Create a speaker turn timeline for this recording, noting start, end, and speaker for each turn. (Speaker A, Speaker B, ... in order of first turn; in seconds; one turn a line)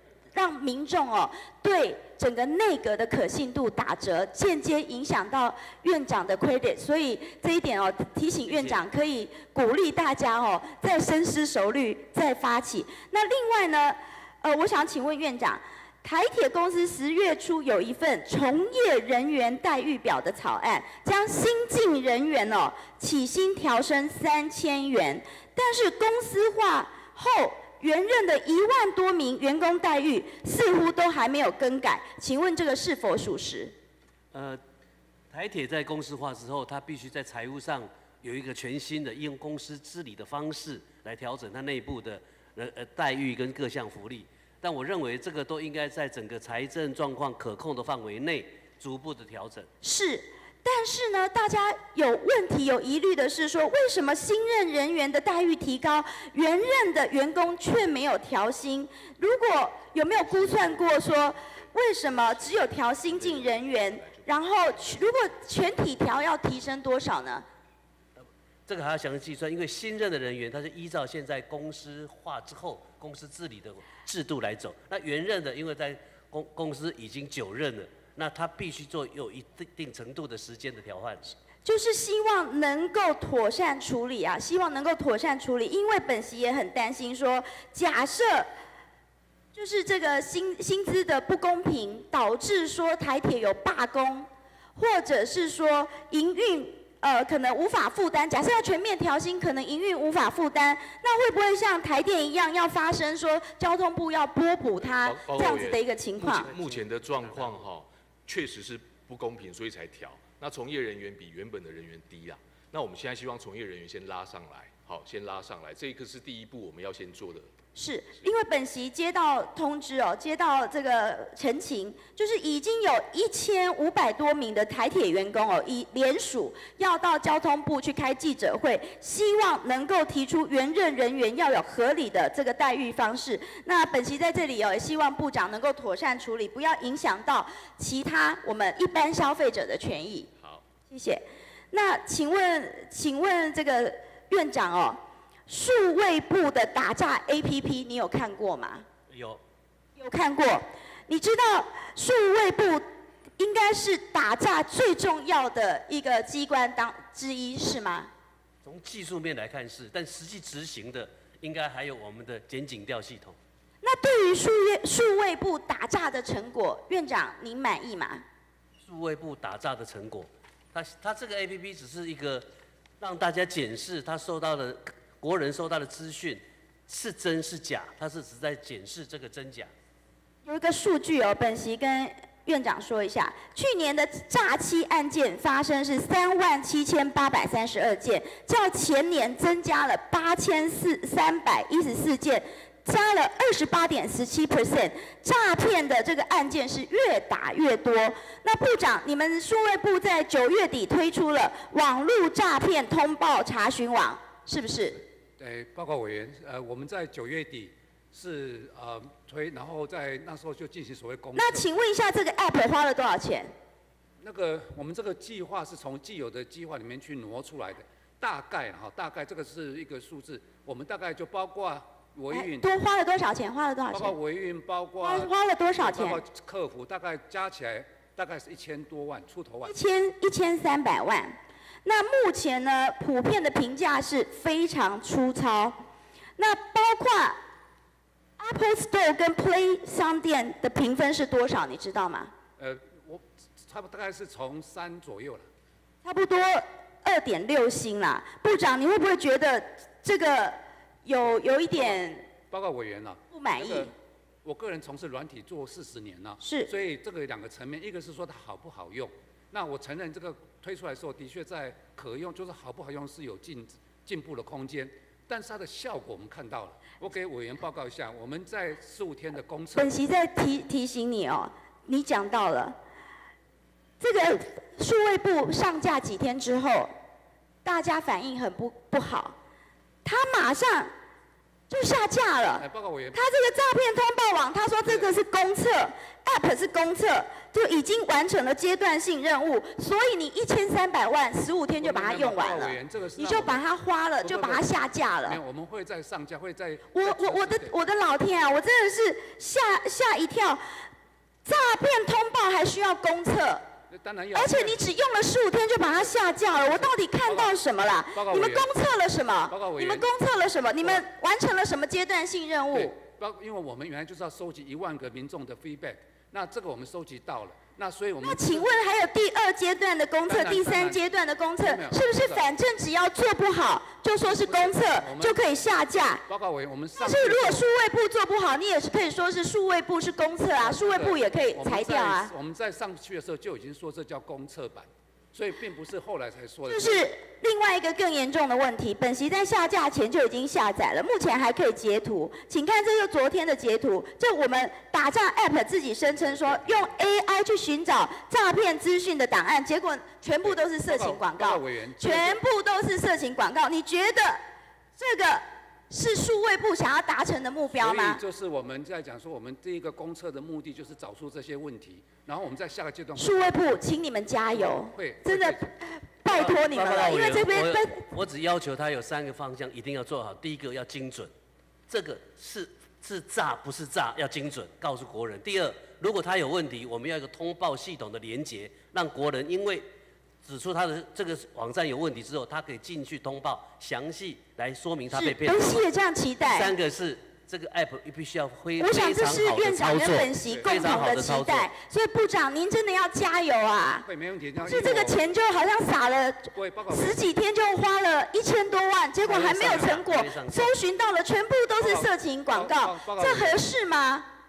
Speaker A: 0.3-33.7
Speaker B: 8.5-8.8
Speaker B: 34.3-34.6
Speaker B: 35.3-49.7
Speaker A: 49.8-67.4
Speaker C: 60.4-61.5
Speaker C: 62.1-65.0
Speaker B: 68.2-81.3
Speaker A: 81.6-88.5
Speaker A: 89.5-106.5
Speaker C: 104.8-117.5
Speaker A: 117.7-140.3
Speaker A: 140.9-148.8
Speaker B: 149.1-149.4
Speaker A: 149.9-152.8
Speaker A: 153.4-158.1
Speaker B: 158.6-163.3
Speaker A: 163.8-168.2
Speaker B: 168.8-172.5
Speaker B: 173.0-179.7
Speaker A: 180.4-205.0
Speaker D: 205.4-211.7
Speaker A: 211.3-213.5
Speaker D: 214.2-222.7
Speaker A: 222.3-224.1
Speaker D: 223.9-229.8
Speaker A: 225.0-226.2
Speaker A: 229.6-235.8
Speaker A: 236.4-237.4
Speaker A: 238.4-242.3
Speaker D: 242.6-245.5
Speaker A: 246.0-252.3
Speaker D: 251.7-253.9
Speaker A: 253.3-253.9
Speaker D: 254.4-269.9
Speaker A: 256.4-256.7
Speaker A: 269.7-272.8
Speaker A: 274.0-276.9
Speaker A: 277.6-279.4
Speaker A: 280.0-280.9
Speaker A: 281.7-295.4
Speaker D: 282.5-283.2
Speaker D: 284.9-285.1
Speaker D: 291.8-293.6
Speaker D: 294.2-294.7
Speaker D: 295.2-297.8
Speaker A: 296.9-300.6
Speaker A: 301.4-303.6
Speaker D: 303.9-304.9
Speaker A: 304.3-312.9
Speaker D: 306.0-308.7
Speaker D: 309.5-310.1
Speaker D: 312.7-318.7
Speaker A: 318.2-326.2
Speaker D: 320.3-321.0
Speaker D: 321.6-322.5
Speaker D: 324.2-325.4
Speaker D: 326.3-327.6
Speaker A: 327.0-332.3
Speaker D: 330.6-337.1
Speaker A: 336.7-354.4
Speaker D: 346.2-346.9
Speaker D: 350.4-352.4
Speaker A: 355.0-358.2
Speaker D: 357.7-363.8
Speaker A: 363.2-368.0
Speaker D: 364.5-365.7
Speaker D: 366.2-366.6
Speaker B: 366.6-371.3
Speaker B: 371.9-379.9
Speaker B: 380.4-385.8
Speaker A: 385.1-386.7
Speaker B: 386.4-391.7
Speaker A: 388.8-394.1
Speaker D: 390.5-390.9
Speaker D: 394.0-395.2
Speaker A: 394.6-404.3
Speaker D: 396.5-397.2
Speaker D: 399.2-399.9
Speaker B: 399.4-400.7
Speaker D: 401.8-403.7